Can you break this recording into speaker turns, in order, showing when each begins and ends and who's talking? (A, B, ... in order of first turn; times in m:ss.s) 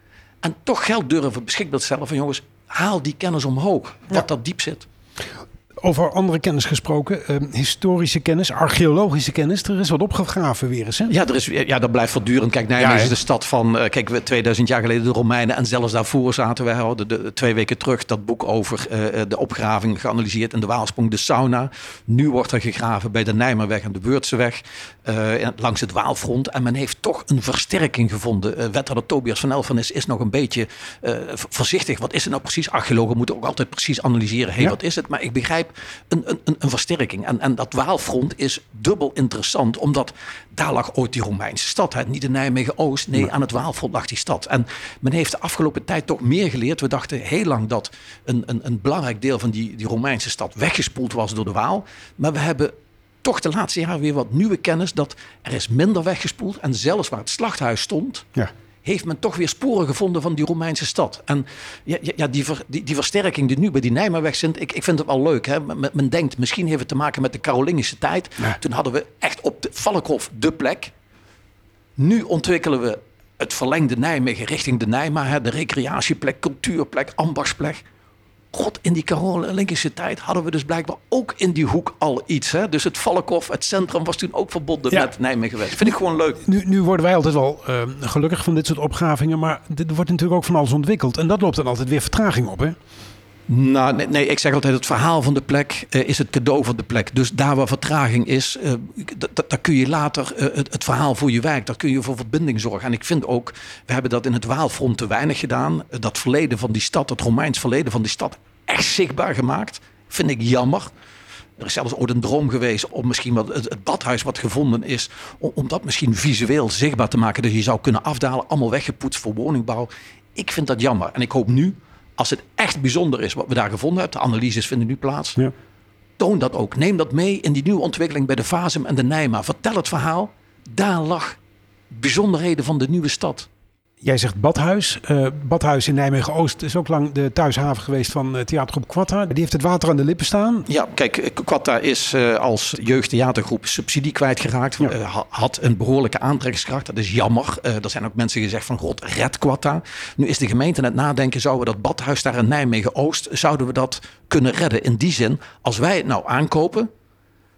0:00.4-0:04.8 A
0:05.8-0:11.1 B
0:11.1-0:58.3 A
0:12.8-0:13.1 B
0:58.8-1:10.9 A
1:12.0-1:17.8 A
1:18.5-1:26.4 A
1:26.4-1:32.8 B
1:33.5-1:50.9 A
1:51.6-2:05.4 A
2:06.2-2:11.4 A
2:11.9-2:13.5 A
2:14.0-2:20.7 B
2:20.7-2:36.9 A